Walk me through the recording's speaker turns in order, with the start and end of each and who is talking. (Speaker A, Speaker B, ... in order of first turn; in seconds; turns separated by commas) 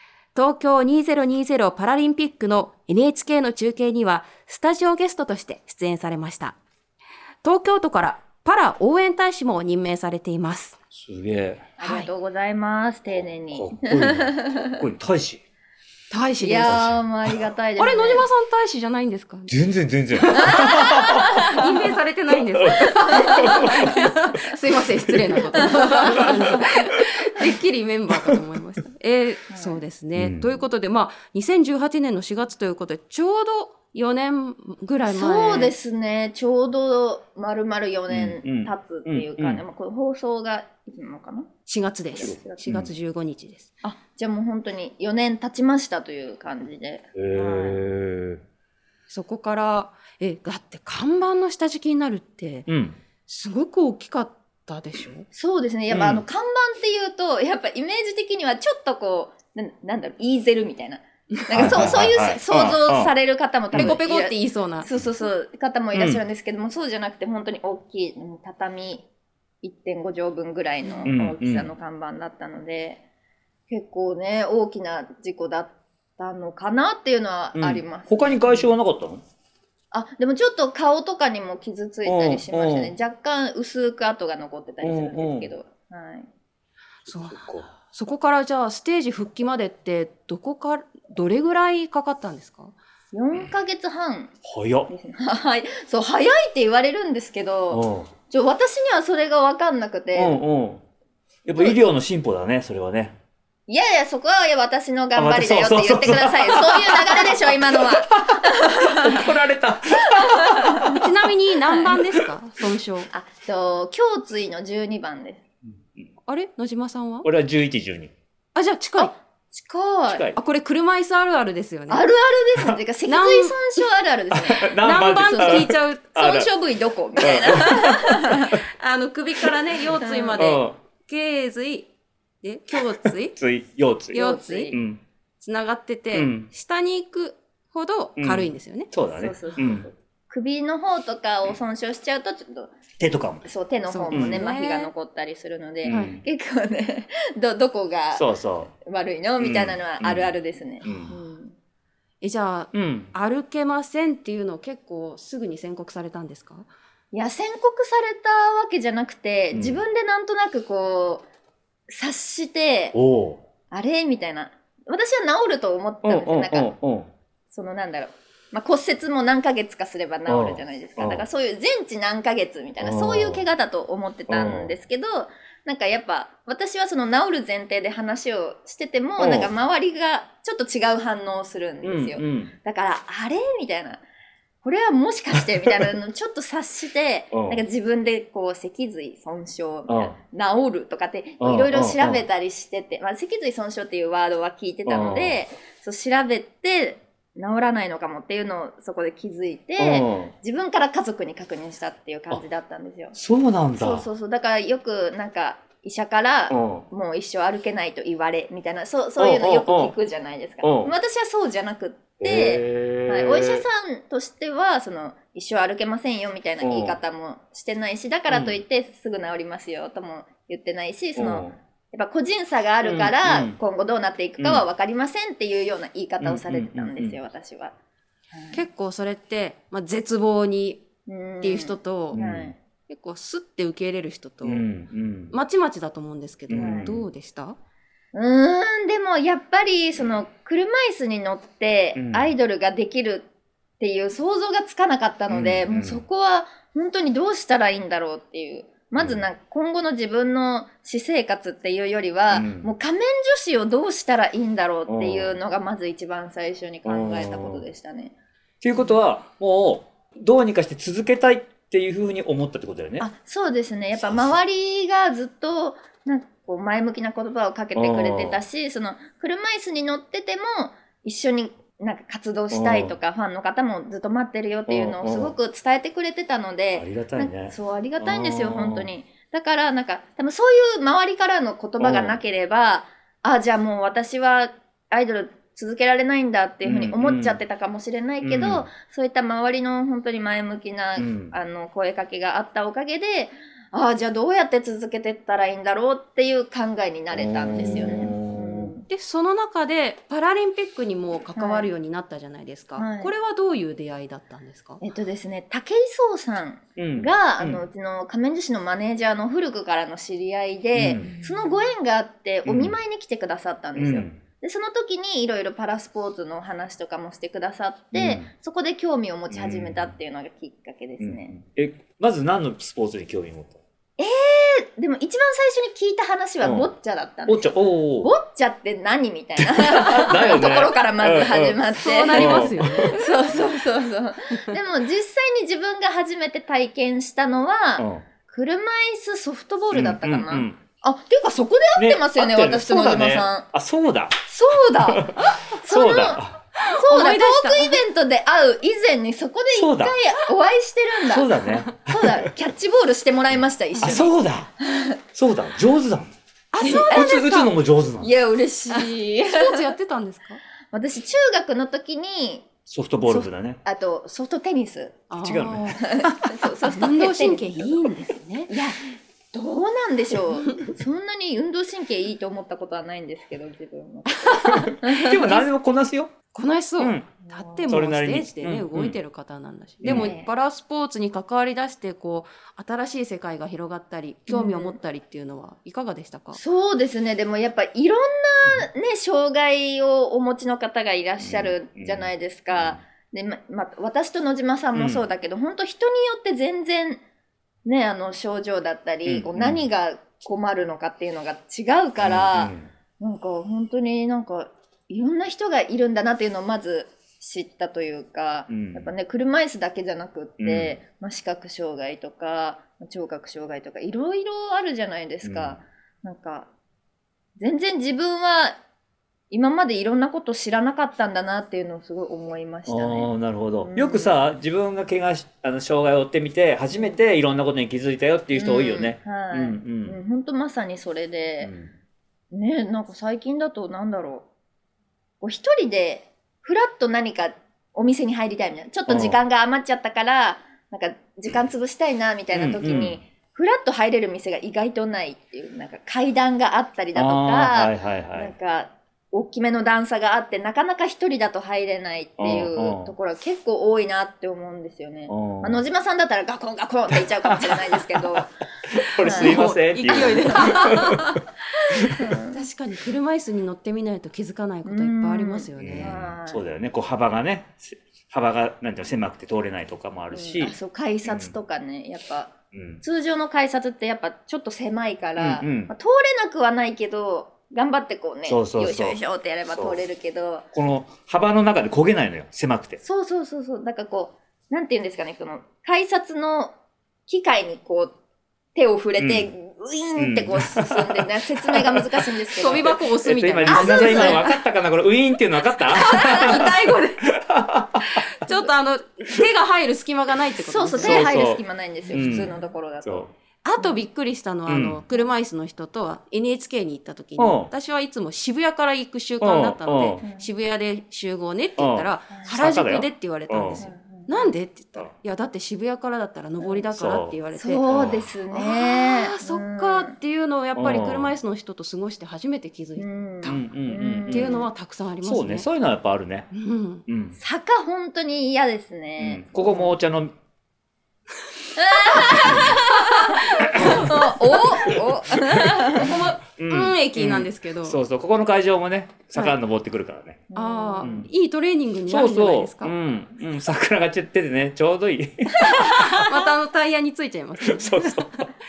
Speaker A: 0.3-6.5, Speaker A: 7.4-10.8, Speaker B: 10.9-11.7, Speaker C: 11.8-14.8, Speaker A: 11.8-12.1, Speaker B: 13.1-15.4, Speaker A: 16.1-16.8, Speaker C: 16.4-18.2, Speaker B: 16.6-17.4, Speaker A: 17.8-19.5, Speaker B: 19.5-21.4, Speaker A: 20.1-35.7, Speaker C: 20.3-21.7, Speaker B: 22.5-24.4, Speaker C: 23.1-23.9, Speaker B: 25.1-27.0, Speaker C: 25.8-26.6, Speaker C: 29.5-29.8, Speaker B: 30.1-30.6, Speaker C: 35.1-41.5, Speaker B: 38.1-39.6, Speaker A: 41.7-43.7, Speaker C: 42.1-42.6, Speaker B: 42.2-42.9, Speaker C: 43.8-47.8, Speaker B: 47.1-48.4, Speaker A: 49.1-52.7, Speaker B: 52.7-53.0, Speaker A: 53.3-55.3, Speaker C: 55.3-69.0, Speaker B: 55.9-56.2, Speaker B: 61.5-63.1, Speaker B: 63.7-64.0, Speaker A: 63.8-64.9, Speaker B: 65.9-66.2, Speaker C: 69.6-73.0, Speaker B: 71.0-71.7, Speaker C: 73.7-78.7, Speaker B: 77.6-79.2, Speaker C: 79.9-86.3, Speaker B: 82.0-82.9, Speaker B: 84.8-85.5, Speaker B: 87.1-87.7, Speaker A: 87.1-92.7, Speaker C: 93.1-94.3, Speaker B: 94.4-94.9, Speaker C: 94.9-100.4, Speaker B: 97.7-98.1, Speaker B: 100.1-100.8, Speaker B: 101.5-103.2, Speaker C: 103.7-109.3, Speaker B: 105.1-111.1, Speaker C: 110.0-110.9, Speaker A: 110.8-113.1, Speaker C: 111.7-112.0, Speaker C: 113.1-115.4, Speaker A: 116.3-117.2, Speaker B: 117.2-118.1, Speaker A: 118.5-119.1, Speaker C: 119.0-120.2, Speaker B: 120.1-120.4, Speaker A: 120.3-122.0, Speaker C: 121.9-124.7, Speaker A: 123.1-123.5, Speaker B: 124.3-126.5, Speaker A: 124.8-126.2, Speaker C: 125.3-128.6, Speaker B: 127.2-128.6, Speaker A: 128.8-131.9, Speaker C: 130.0-130.4, Speaker B: 130.4-130.8, Speaker A: 132.4-133.4, Speaker B: 132.8-135.0, Speaker A: 134.1-134.8, Speaker C: 134.1-134.8, Speaker A: 135.4-138.9, Speaker B: 136.1-136.5, Speaker B: 138.2-139.9, Speaker C: 139.2-148.3, Speaker B: 143.0-143.4, Speaker A: 143.9-144.9, Speaker B: 144.1-144.4, Speaker B: 145.8-146.2, Speaker A: 145.9-146.2, Speaker B: 148.1-148.7, Speaker C: 148.8-151.5, Speaker B: 149.4-150.3, Speaker A: 150.8-151.1, Speaker B: 150.8-151.1, Speaker A: 152.2-156.7, Speaker B: 152.7-153.1, Speaker C: 157.1-161.2, Speaker B: 159.5-159.8, Speaker C: 161.9-162.9, Speaker B: 162.9-163.4, Speaker C: 163.7-166.7, Speaker B: 166.0-167.1, Speaker C: 167.5-184.0, Speaker B: 170.3-171.2, Speaker B: 172.8-173.4, Speaker B: 174.3-174.7, Speaker B: 179.2-179.5, Speaker B: 181.8-182.5, Speaker C: 184.6-203.1, Speaker B: 187.3-187.6, Speaker B: 189.9-190.1, Speaker B: 191.4-192.2, Speaker B: 194.8-195.4, Speaker B: 199.8-200.3, Speaker B: 203.1-204.1, Speaker C: 203.8-227.7, Speaker B: 206.5-206.8, Speaker B: 209.2-209.9, Speaker B: 210.6-210.9, Speaker B: 212.2-213.6, Speaker B: 216.6-217.0, Speaker B: 218.3-218.6, Speaker B: 221.2-221.6, Speaker B: 222.8-223.6, Speaker B: 224.4-224.6, Speaker B: 226.2-227.2, Speaker C: 228.3-228.6, Speaker A: 228.5-230.8, Speaker C: 231.1-232.5, Speaker A: 231.4-232.2, Speaker B: 232.1-232.5, Speaker A: 232.9-234.6, Speaker B: 234.4-235.3, Speaker A: 235.3-237.6, Speaker B: 236.5-237.1, Speaker C: 236.6-236.9, Speaker C: 238.1-243.3, Speaker B: 241.9-242.3, Speaker C: 243.8-258.1, Speaker B: 245.3-246.0, Speaker B: 249.0-249.2, Speaker B: 252.3-252.7, Speaker B: 254.9-255.3, Speaker B: 256.9-257.6, Speaker B: 258.6-263.1, Speaker C: 263.0-298.9, Speaker B: 263.9-264.4, Speaker B: 267.7-268.4, Speaker B: 272.5-272.9, Speaker B: 274.7-275.3, Speaker B: 276.7-278.9, Speaker B: 281.8-282.2, Speaker B: 286.6-287.4, Speaker B: 288.2-288.7, Speaker B: 291.0-291.3, Speaker B: 297.1-298.7, Speaker A: 298.9-304.8, Speaker C: 301.4-301.7, Speaker C: 302.8-303.1, Speaker C: 304.8-321.4, Speaker B: 306.8-307.6, Speaker B: 310.7-311.1, Speaker B: 312.4-312.8, Speaker B: 313.8-314.2, Speaker B: 317.9-318.3, Speaker B: 319.3-319.9, Speaker B: 321.0-323.6, Speaker C: 324.0-343.5, Speaker B: 326.4-326.7, Speaker B: 327.3-328.1, Speaker B: 329.4-331.6, Speaker A: 331.8-333.0, Speaker B: 332.1-333.0, Speaker B: 337.8-338.0, Speaker B: 339.7-340.6, Speaker B: 341.8-344.2, Speaker C: 344.3-355.0, Speaker B: 344.8-346.4, Speaker A: 346.6-347.8, Speaker B: 349.5-349.9, Speaker B: 351.1-352.3, Speaker B: 353.8-354.5, Speaker B: 355.1-356.1, Speaker A: 356.5-357.5, Speaker C: 356.6-357.3, Speaker B: 356.9-358.1, Speaker C: 358.0-359.7, Speaker A: 358.7-360.4, Speaker C: 360.7-362.5, Speaker B: 362.7-363.6, Speaker C: 363.1-365.0, Speaker A: 365.1-365.8, Speaker B: 365.2-366.4, Speaker C: 365.8-367.9, Speaker A: 366.6-368.5, Speaker C: 368.5-368.8, Speaker C: 369.3-375.4, Speaker A: 374.1-374.8, Speaker B: 374.5-376.1, Speaker A: 376.3-386.4, Speaker B: 376.8-377.1, Speaker C: 377.2-377.7, Speaker B: 377.7-378.9, Speaker B: 379.8-380.1, Speaker C: 379.8-380.3, Speaker C: 384.3-384.8, Speaker C: 386.3-397.0, Speaker B: 391.2-392.8, Speaker B: 394.7-395.0, Speaker C: 397.6-416.5, Speaker B: 399.1-399.6, Speaker B: 402.0-402.7, Speaker B: 408.5-408.9, Speaker B: 410.4-410.8, Speaker B: 415.2-415.6, Speaker C: 417.4-418.6, Speaker C: 419.3-424.1, Speaker B: 422.7-430.0, Speaker C: 426.7-427.0, Speaker C: 428.3-431.5, Speaker B: 431.4-431.7, Speaker C: 432.3-434.2, Speaker C: 435.2-458.3, Speaker B: 438.9-439.2, Speaker B: 442.3-443.0, Speaker B: 446.9-448.3, Speaker B: 452.2-452.9, Speaker B: 455.1-455.6, Speaker B: 456.9-461.2, Speaker C: 459.0-460.8, Speaker A: 459.0-461.2, Speaker C: 461.6-462.4, Speaker B: 461.8-462.0, Speaker A: 462.3-466.0, Speaker C: 464.6-466.4, Speaker B: 465.6-470.5, Speaker C: 470.1-480.4, Speaker B: 471.1-471.3, Speaker B: 472.5-472.8, Speaker B: 475.2-475.7, Speaker B: 478.2-479.0, Speaker B: 479.5-479.8, Speaker B: 480.5-482.8, Speaker C: 482.8-486.5, Speaker C: 487.1-487.9, Speaker C: 488.5-492.8, Speaker B: 489.0-489.3, Speaker B: 490.0-491.9, Speaker A: 492.3-494.3, Speaker B: 492.5-498.0, Speaker C: 493.5-494.2, Speaker A: 495.7-497.0, Speaker A: 497.8-501.2, Speaker C: 500.4-503.1, Speaker B: 500.8-501.4, Speaker B: 501.9-502.3, Speaker B: 502.8-503.1, Speaker A: 503.4-517.6, Speaker B: 504.5-504.8, Speaker B: 507.2-507.5, Speaker B: 509.2-510.0, Speaker B: 511.6-513.6, Speaker C: 513.6-514.3, Speaker B: 516.7-517.1, Speaker C: 517.3-519.9, Speaker B: 517.7-518.1, Speaker A: 518.3-523.4, Speaker B: 520.5-521.1, Speaker C: 522.8-524.5, Speaker B: 523.2-524.4, Speaker A: 524.1-525.5, Speaker B: 525.0-526.3, Speaker A: 526.3-526.8, Speaker B: 526.9-527.1, Speaker C: 527.2-529.7, Speaker B: 529.0-530.1, Speaker C: 531.5-536.0, Speaker B: 532.1-532.6, Speaker A: 532.2-534.0, Speaker B: 533.4-540.2, Speaker A: 535.7-537.8, Speaker C: 540.3-541.0, Speaker A: 540.3-542.7, Speaker B: 540.8-541.1, Speaker B: 541.9-546.2, Speaker A: 545.4-548.3, Speaker B: 547.4-548.2